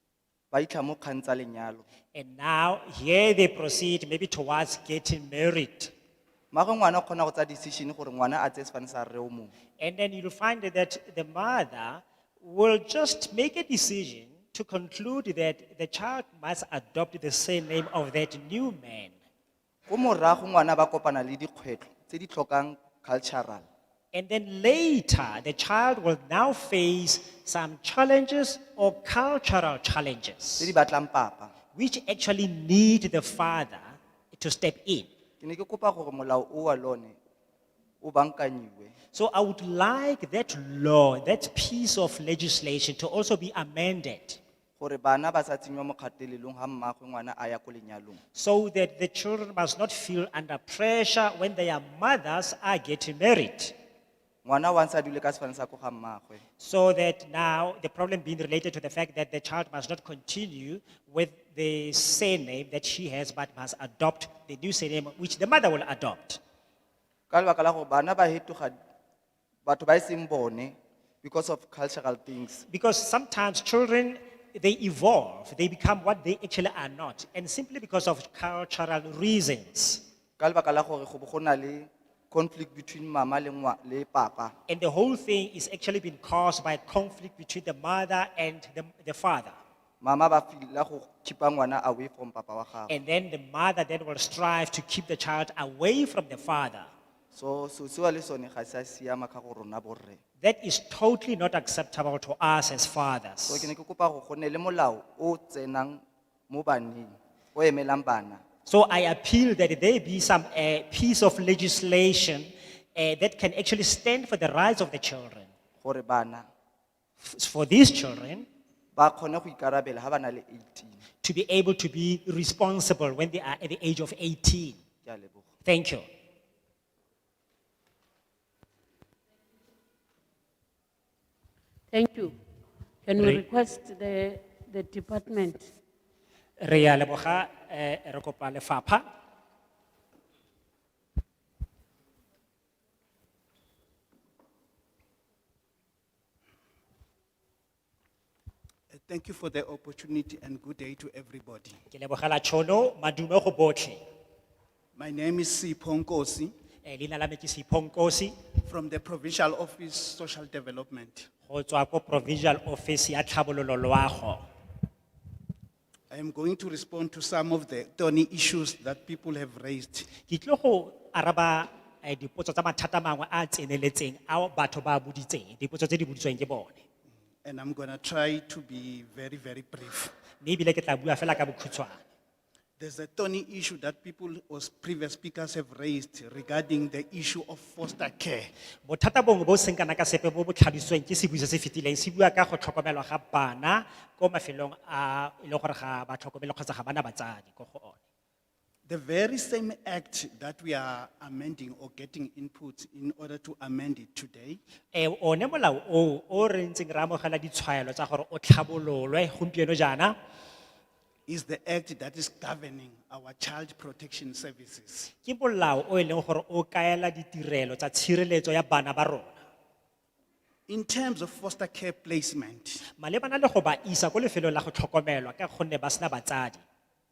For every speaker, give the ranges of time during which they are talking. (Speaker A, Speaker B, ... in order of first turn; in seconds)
Speaker A: 0.5-1.8, 6.5-9.5, 19.9-23.6, 30.6-31.5, 35.4-37.2, 38.0-38.9, 44.8-48.2, 54.4-56.4, 67.3-68.8, 69.6-72.6, 80.4-84.5, 90.0-92.9, 97.3-100.2, 103.5-108.4, 115.8-116.5, 118.9-121.0, 125.0-125.5
Speaker B: 2.1-5.9, 9.8-19.1, 24.1-30.7, 31.7-35.1, 39.1-44.4, 48.3-53.7, 56.6-66.4, 72.7-80.0, 84.7-89.5, 92.9-96.9, 100.4-103.7, 108.7-115.5, 117.2-118.5, 121.2-124.8, 125.6-126.0, 133.2-133.4, 136.6-139.0, 151.9-154.0, 156.8-158.3, 161.5-164.4, 170.3-176.8, 180.4-182.0, 188.8-198.0, 204.9-210.1, 215.2-219.4, 223.0-226.6
Speaker C: 131.9-132.3, 133.1-135.7
Speaker D: 148.9-151.8, 154.9-156.5, 158.6-161.3, 166.1-170.1, 177.4-180.1, 182.8-188.5, 198.8-204.6, 211.3-215.1, 220.7-222.8